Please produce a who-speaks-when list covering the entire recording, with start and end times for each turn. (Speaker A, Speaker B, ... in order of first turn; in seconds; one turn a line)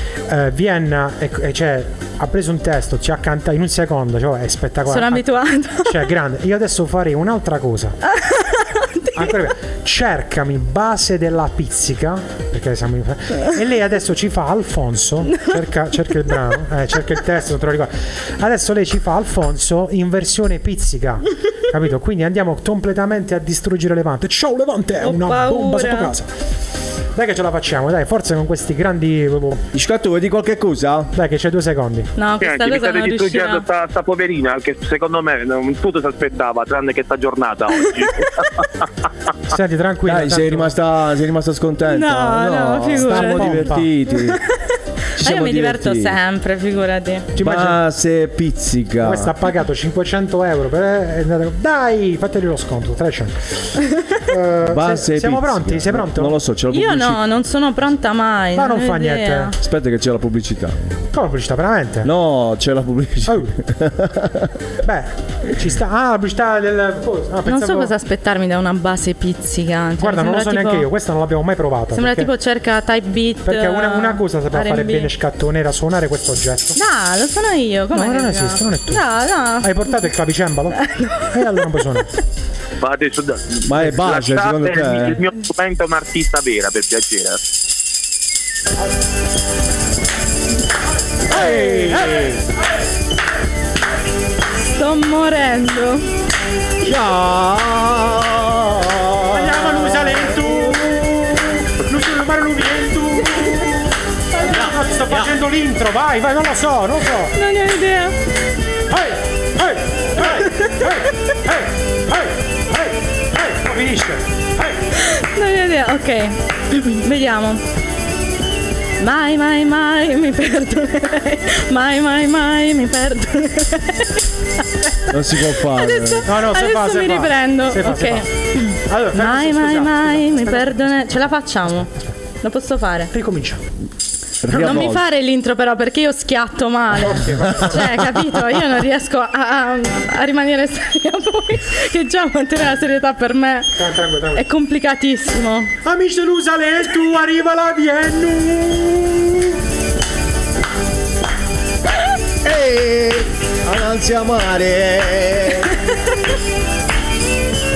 Speaker A: 0.3-5.3
Speaker B: 4.9-5.9
Speaker A: 5.8-8.0
Speaker B: 8.1-9.3
Speaker A: 9.1-26.3
Speaker B: 25.0-26.1
Speaker A: 27.1-29.6
Speaker C: 29.7-31.1
Speaker A: 31.1-32.1
Speaker B: 32.1-33.6
Speaker D: 32.4-38.6
Speaker A: 39.5-40.7
Speaker C: 40.0-44.4
Speaker B: 41.9-47.3
Speaker A: 42.9-43.9
Speaker C: 45.2-46.2
Speaker A: 47.4-47.8
Speaker C: 47.4-49.3
Speaker A: 49.0-53.5
Speaker A: 54.2-56.4
Speaker C: 54.6-57.2
Speaker B: 56.7-59.5
Speaker A: 58.5-59.5
Speaker C: 59.6-61.0
Speaker A: 61.1-62.1
Speaker C: 62.0-64.5
Speaker A: 63.3-63.5
Speaker A: 64.8-67.9
Speaker B: 67.5-70.9
Speaker A: 70.0-72.3
Speaker B: 71.9-75.1
Speaker A: 73.4-76.8
Speaker B: 76.8-79.7
Speaker A: 77.9-79.0
Speaker A: 79.6-80.8
Speaker B: 80.8-81.6
Speaker A: 81.3-82.1
Speaker D: 82.8-87.4
Speaker C: 83.6-85.2
Speaker C: 91.3-92.4
Speaker A: 91.3-92.3
Speaker B: 94.7-96.0
Speaker C: 96.8-100.9
Speaker A: 99.3-107.3
Speaker B: 107.3-108.1
Speaker A: 108.9-114.8
Speaker B: 114.9-117.6
Speaker B: 119.0-124.2
Speaker C: 125.1-126.2
Speaker B: 125.6-131.9
Speaker A: 126.2-128.3
Speaker A: 128.9-131.2
Speaker B: 132.4-133.1
Speaker A: 133.1-133.6
Speaker C: 134.4-135.0
Speaker B: 134.5-143.7
Speaker A: 137.0-138.1
Speaker A: 143.8-144.4
Speaker B: 144.3-145.7
Speaker A: 145.8-149.5
Speaker C: 152.4-155.7